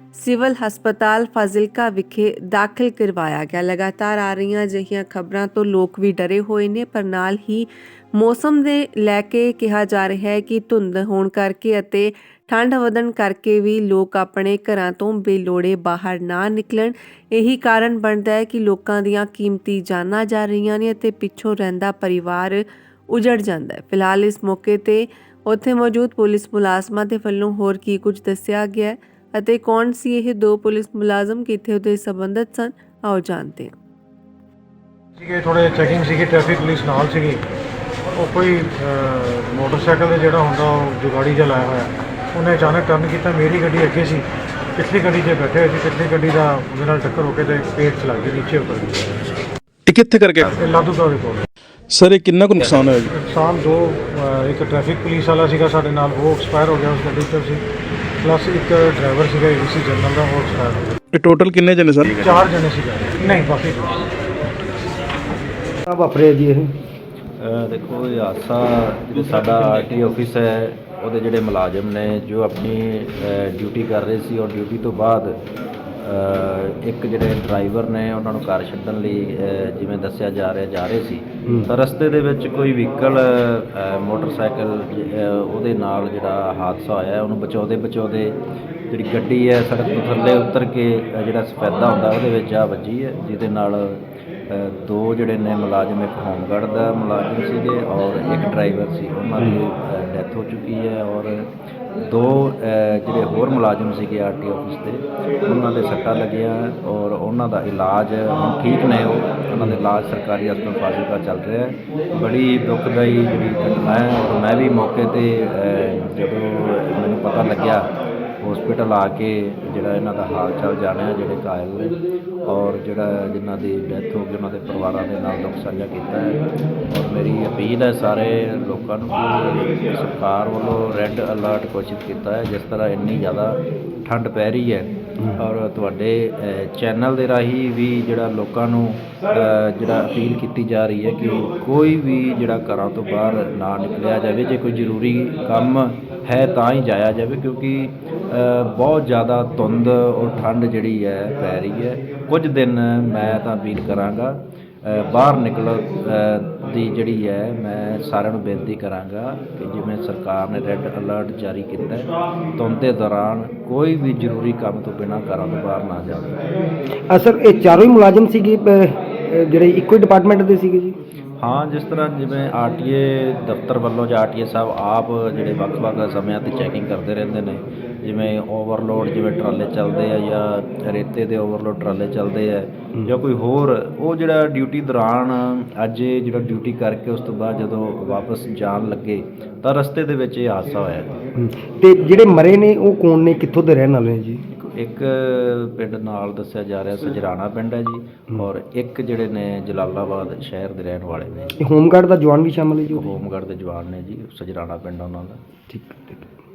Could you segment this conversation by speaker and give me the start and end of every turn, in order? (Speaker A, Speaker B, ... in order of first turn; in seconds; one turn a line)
Speaker A: 0.1-33.7
Speaker B: 35.2-37.4
Speaker B: 38.1-49.1
Speaker C: 49.9-50.4
Speaker B: 50.4-51.5
Speaker C: 51.9-53.1
Speaker B: 53.1-57.6
Speaker B: 58.2-61.0
Speaker C: 61.1-62.4
Speaker B: 62.1-64.1
Speaker D: 65.9-66.7
Speaker E: 67.4-75.4
Speaker E: 76.0-88.3
Speaker E: 88.9-117.9
Speaker E: 118.4-166.4
Speaker D: 167.1-170.9
Speaker E: 171.4-191.1
Speaker D: 191.3-194.4
Speaker E: 194.5-201.6
Speaker D: 201.6-203.1
Speaker E: 202.8-205.4
Speaker D: 205.7-206.2